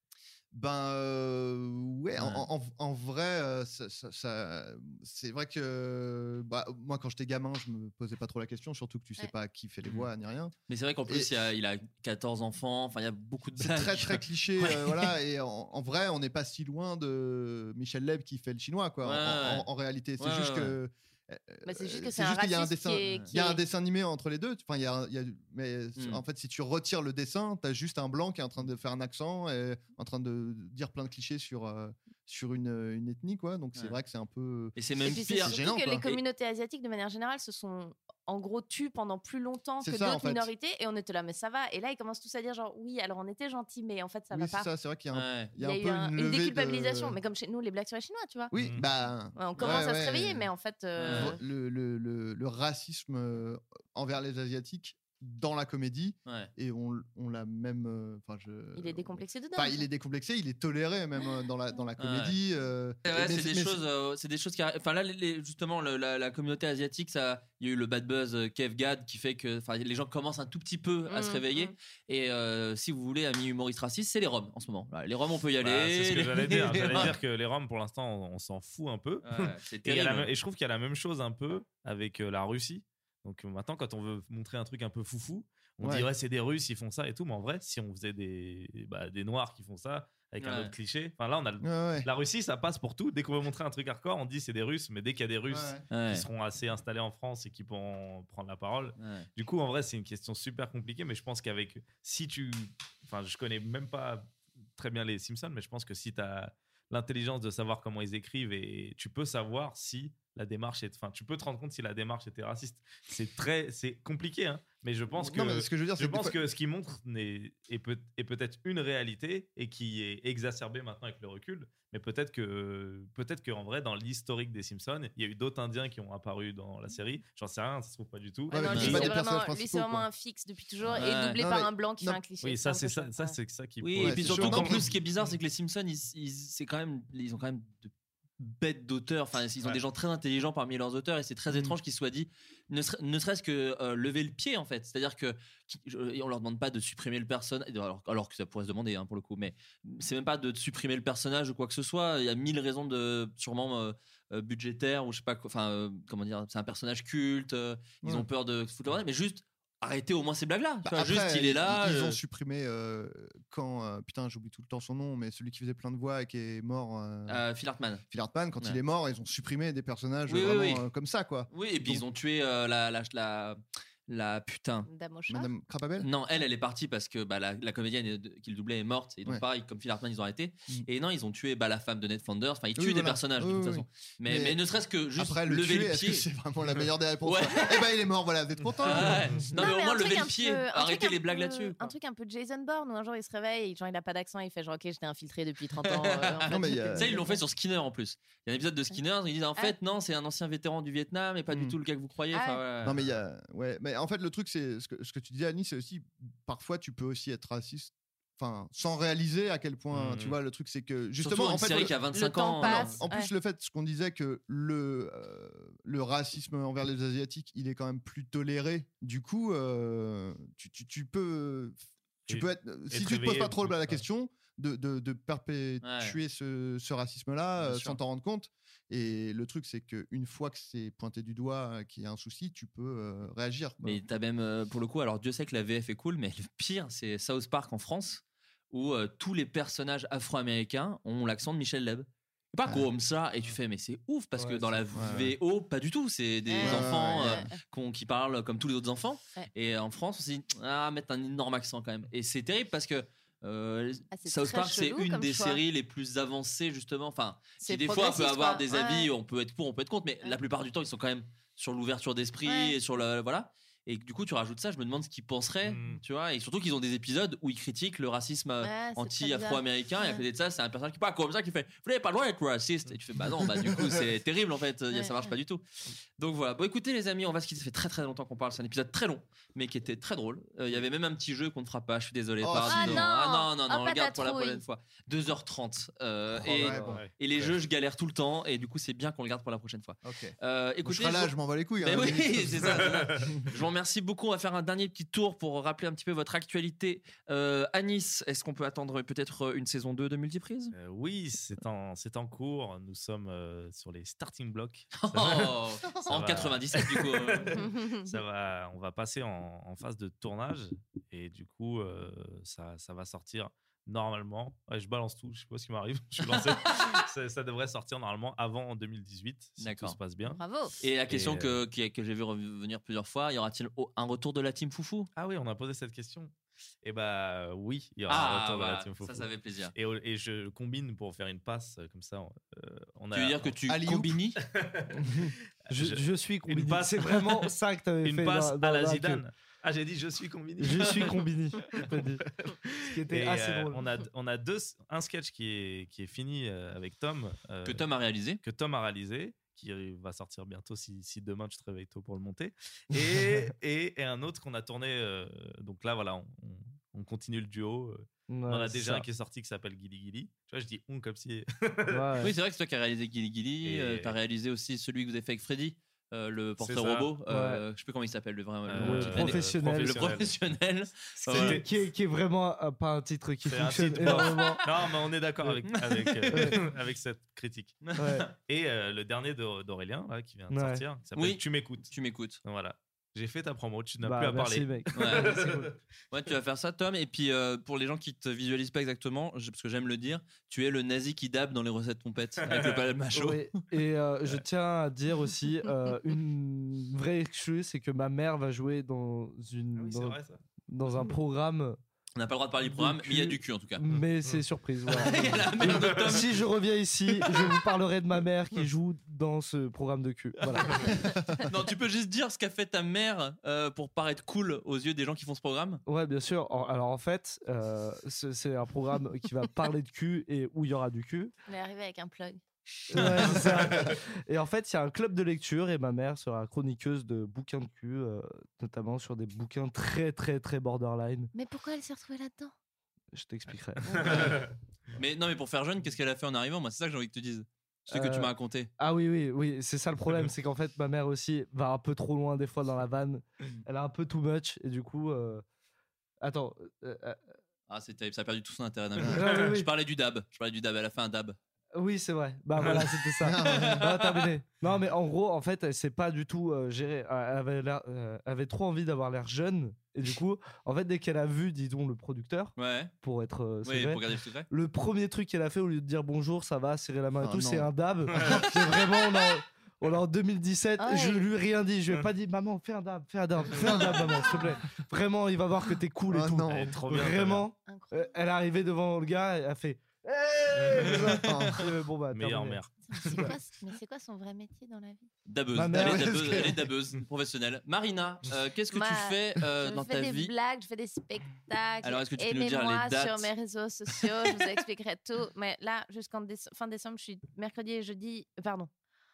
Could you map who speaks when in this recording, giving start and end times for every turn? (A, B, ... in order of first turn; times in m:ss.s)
0:00.5-0:10.5 A
0:02.2-0:02.5 B
0:10.7-0:15.1 B
0:11.1-0:11.3 A
0:13.6-0:36.1 A
0:19.0-0:19.7 B
0:20.2-0:20.8 B
0:21.7-0:23.6 C
0:26.0-0:26.2 B
0:34.8-0:36.2 B
0:35.0-0:44.7 C
0:39.8-0:40.5 A
0:44.3-0:47.2 A
0:45.1-0:45.5 B
0:45.6-0:48.5 C
0:48.5-0:50.5 A
0:48.5-0:48.9 D
0:49.4-0:51.4 C
0:49.6-0:49.8 B
0:51.0-0:51.4 B
0:51.1-1:03.8 A
0:58.8-0:59.8 C
1:02.0-1:02.4 B
1:03.1-1:17.2 B
1:11.1-1:11.7 C
1:15.6-2:09.2 D
1:19.2-1:20.3 B
1:25.8-1:26.1 A
1:30.4-1:30.7 B
1:31.6-1:32.1 A
1:35.5-1:35.8 A
1:35.9-1:36.3 B
1:39.0-1:39.3 B
1:55.1-1:56.4 A
2:08.5-2:10.1 A
2:08.5-2:13.4 C
2:08.7-2:09.0 B
2:10.8-2:12.2 A
2:11.0-2:11.4 B
2:12.4-2:14.9 D
2:13.8-2:42.2 B
2:14.0-2:14.9 A
2:40.8-2:47.4 A
2:47.3-2:48.0 B
2:48.1-2:52.0 A
2:50.3-2:50.8 B
2:51.5-2:54.9 B
2:54.9-2:55.5 C
2:55.3-2:56.1 A
2:56.0-3:06.3 B
3:02.8-3:04.6 A
3:05.2-3:09.5 A
3:07.2-3:07.9 B
3:08.8-3:11.8 B
3:08.9-3:09.5 D
3:09.6-3:17.4 C
3:15.9-3:23.0 B
3:16.5-3:17.3 A
3:21.5-3:21.8 A
3:22.3-3:22.6 C
3:22.8-3:32.0 A
3:29.9-3:30.4 D
3:31.2-3:33.0 B
3:32.1-3:33.3 C
3:32.6-3:54.0 A
3:42.3-3:44.0 D
3:45.8-3:46.2 B
3:47.6-3:48.0 B
3:53.8-4:35.6 B
4:04.4-4:04.8 E
4:04.9-4:05.3 A
4:06.5-4:07.4 A
4:06.5-4:07.6 C
4:14.1-4:15.6 C
4:17.6-4:19.1 C
4:22.4-4:22.8 C
4:25.6-4:26.0 D
4:28.6-4:30.2 C
4:34.9-4:35.3 C
4:36.2-5:00.7 B
4:42.4-4:43.1 A
4:42.7-4:44.6 C
4:46.4-4:47.0 A
4:46.6-4:47.0 E
4:46.9-4:47.5 D
4:50.0-4:52.9 A
4:52.8-4:53.4 D
5:00.7-5:20.4 D
5:05.0-5:07.6 B
5:07.6-5:08.2 C
5:19.6-5:20.0 B
5:20.2-5:20.8 C
5:20.8-5:25.1 B
5:21.1-5:21.6 D
5:25.2-5:33.6 D
5:28.1-5:29.7 B
5:33.1-5:34.4 B
5:33.7-5:34.2 A
5:34.4-5:35.2 D
5:34.9-5:39.2 E
5:35.7-5:47.8 D
5:40.6-5:42.2 E
5:42.8-5:43.9 E
5:47.6-5:48.4 B
5:48.4-6:02.3 D
5:53.0-5:53.4 E
5:58.3-5:59.1 E
6:01.9-6:02.3 E
6:02.2-6:11.6 B
6:03.6-6:04.2 D
6:06.6-6:07.2 D
6:07.3-6:07.6 E
6:08.6-6:10.4 D
6:08.8-6:10.0 E
6:11.2-6:11.7 D
6:11.3-6:14.6 E
6:13.4-6:17.8 D
6:14.1-6:14.9 B
6:15.7-6:16.3 B
6:16.3-6:16.6 E
6:17.8-6:18.3 B
6:18.0-6:18.3 E
6:18.4-6:21.9 D
6:20.5-6:20.8 E
6:21.2-6:22.4 B
6:22.4-6:25.8 D
6:24.0-6:25.7 E
6:25.0-6:25.3 B
6:26.1-6:33.6 B
6:32.4-6:32.8 D
6:33.1-6:40.2 E
6:39.8-6:40.4 D
6:40.7-6:41.8 E
6:42.2-6:43.8 B
6:42.7-6:50.7 E
6:43.9-6:44.4 D
6:44.9-6:46.4 B
6:45.6-6:46.2 D
6:50.5-6:50.9 B
6:50.9-6:51.4 A
6:51.5-6:55.8 B
6:55.9-7:01.3 E
7:01.5-7:02.4 C
7:02.9-7:11.3 E
7:03.2-7:04.0 D
7:11.3-7:12.5 C
7:13.1-7:13.8 E
7:13.8-7:15.0 D
7:13.9-7:14.4 C
7:15.0-7:18.7 B
7:17.9-7:25.4 E
7:26.2-7:27.4 E
7:27.7-7:31.4 B
7:29.1-7:29.7 E
7:31.8-8:03.3 E
7:33.2-7:33.9 A
7:33.4-7:34.2 B
7:42.6-7:42.9 B
7:43.6-7:44.5 B
7:47.2-7:47.7 A
7:48.2-7:48.5 D
7:50.8-7:51.3 C
7:56.1-7:56.8 A
7:56.5-7:57.5 D
7:57.6-7:58.2 C
8:00.6-8:00.9 D
8:01.2-8:01.6 A
8:02.1-8:02.7 D
8:02.9-8:05.1 C
8:05.3-8:10.3 B
8:05.5-8:06.1 E
8:05.7-8:06.7 A
8:08.7-8:18.7 C
8:11.8-8:13.3 B
8:13.9-8:14.4 B